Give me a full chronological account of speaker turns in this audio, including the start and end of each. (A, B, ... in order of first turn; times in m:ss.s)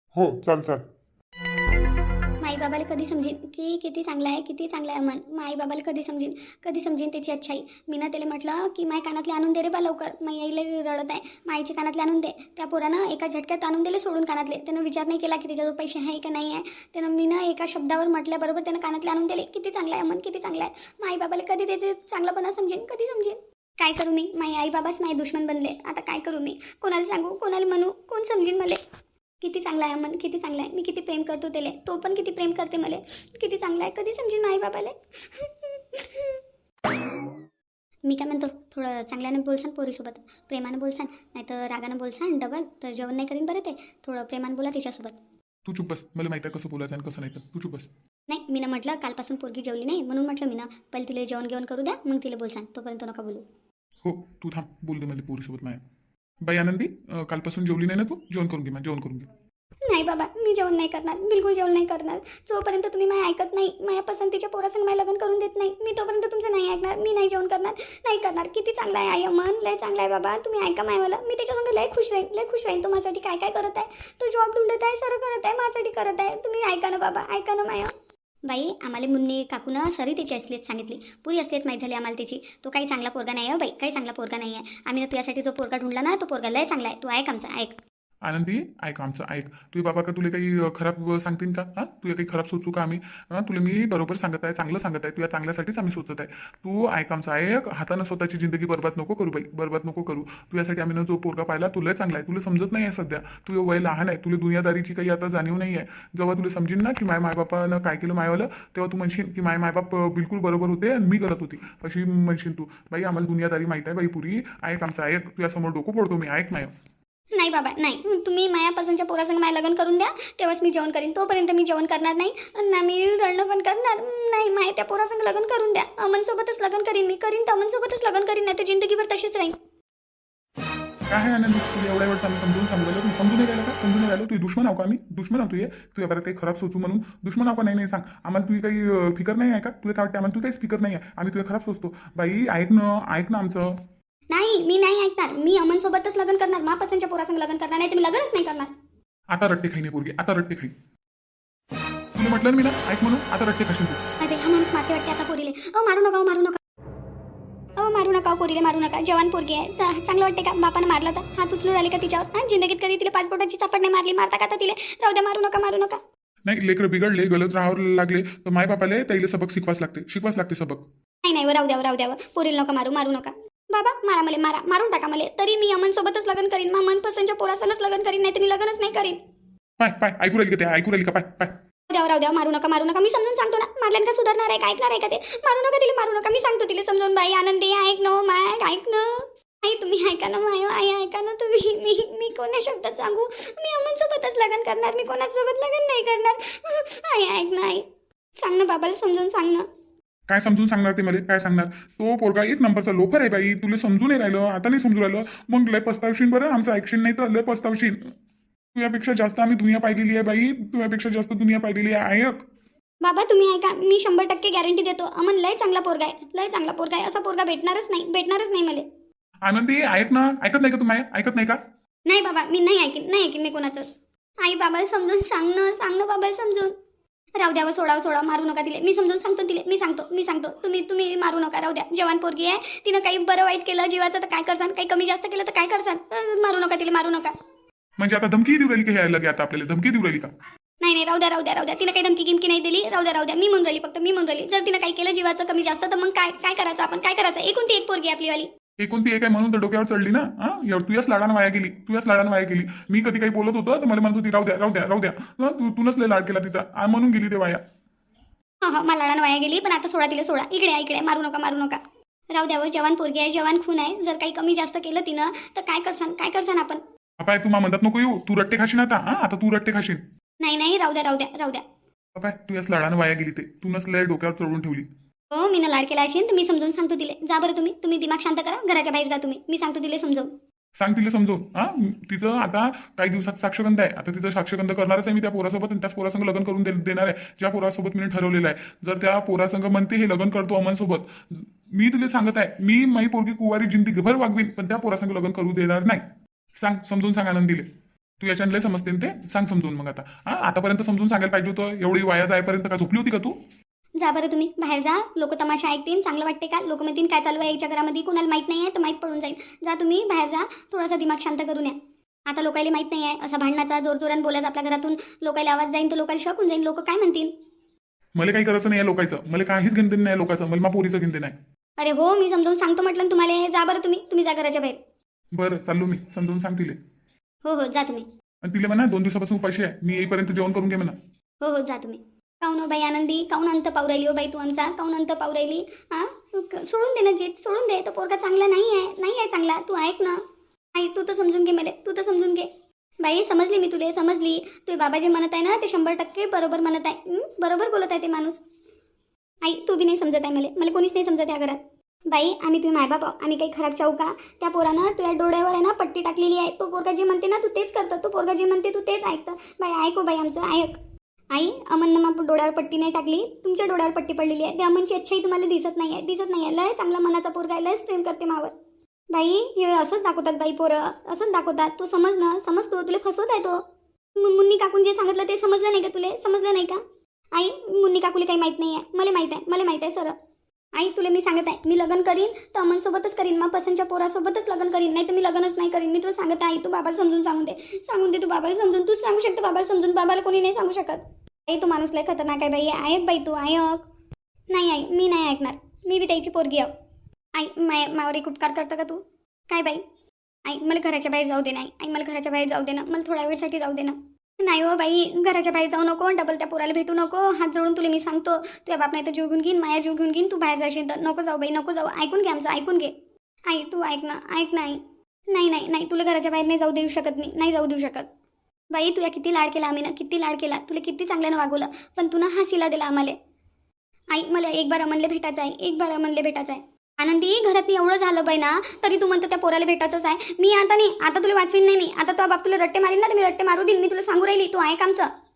0:00.1-0:00.8 A
0:02.4-0:28.8 B
0:29.4-0:36.4 B
0:38.1-0:45.2 B
0:45.6-0:47.9 A
0:48.3-0:53.4 B
0:54.0-0:55.8 A
0:56.4-0:59.3 A
0:59.8-1:17.9 B
1:18.5-1:27.8 B
1:28.2-1:56.7 A
1:57.4-2:09.6 B
2:11.1-2:23.7 A
2:24.3-2:28.7 B
2:29.3-2:30.7 A
2:32.2-2:34.0 A
2:34.2-2:36.6 B
2:37.8-2:46.0 B
2:46.5-2:50.8 A
2:51.2-2:59.2 B
2:59.8-3:01.5 A
3:01.9-3:17.8 B
3:18.4-3:19.7 B
3:20.3-3:28.1 A
3:28.8-3:32.5 A
3:33.0-3:38.9 B
3:39.4-3:41.6 A
3:42.1-3:46.7 B
3:47.4-3:57.3 B
3:58.0-4:00.3 A
4:00.8-4:08.5 B
4:08.8-4:17.6 A
4:18.6-4:21.8 B
4:22.3-4:26.8 B
4:27.2-4:30.0 A
4:30.4-4:31.6 B
4:32.2-4:34.9 A
4:35.3-4:40.3 B
4:40.8-4:56.0 A
4:56.6-4:57.7 A
4:58.2-5:03.4 A
5:04.0-5:17.3 B
5:18.2-5:21.4 A
5:21.8-5:24.8 B
5:25.3-5:26.8 A
5:27.4-5:28.1 B
5:28.4-5:31.0 A
5:31.4-5:40.2 B
5:40.8-5:42.5 B
5:43.0-5:48.4 B
5:49.4-6:00.8 B
6:01.3-6:08.5 B
6:09.1-6:13.6 B
6:14.2-6:16.8 B
6:17.4-6:20.2 B
6:20.8-6:33.9 B
6:34.5-6:36.7 B
6:37.3-6:39.8 B
6:40.5-6:52.9 B
6:53.5-6:58.1 B
6:58.7-7:03.2 B
7:04.1-7:15.1 B